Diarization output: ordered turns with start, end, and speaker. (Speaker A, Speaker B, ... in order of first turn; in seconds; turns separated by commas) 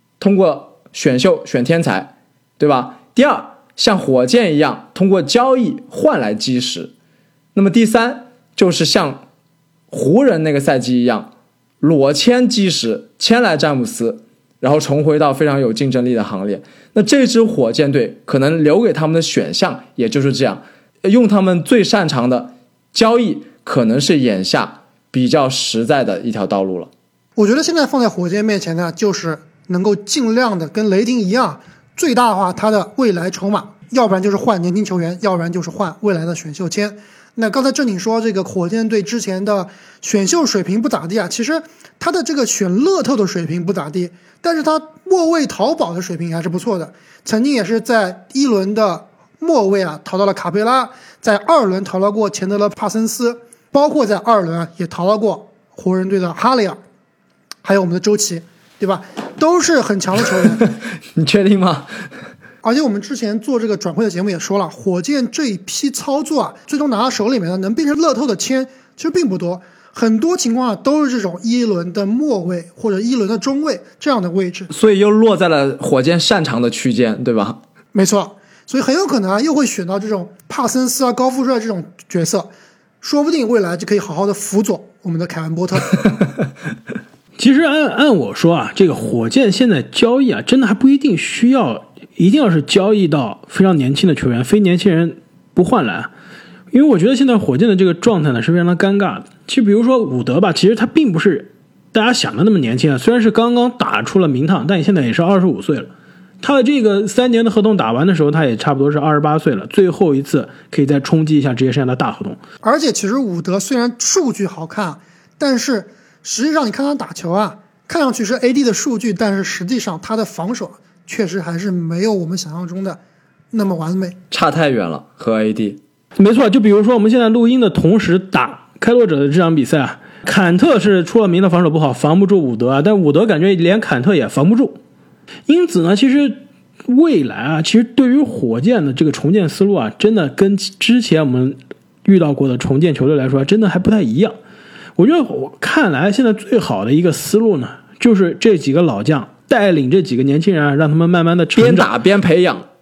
Speaker A: 0.2-6.9, Speaker A: 7.5-9.2, Speaker A: 9.9-11.3, Speaker A: 11.8-26.9, Speaker B: 27.4-56.8, Speaker B: 57.6-60.6, Speaker A: 61.1-61.9, Speaker B: 62.6-74.7, Speaker A: 74.7-77.6, Speaker B: 77.9-86.0, Speaker C: 87.4-96.1, Speaker C: 96.7-112.4, Speaker B: 112.6-123.0, Speaker B: 123.5-124.2, Speaker A: 124.3-125.8, Speaker C: 126.2-134.8, Speaker C: 135.5-144.3, Speaker C: 145.0-151.9, Speaker A: 151.6-152.7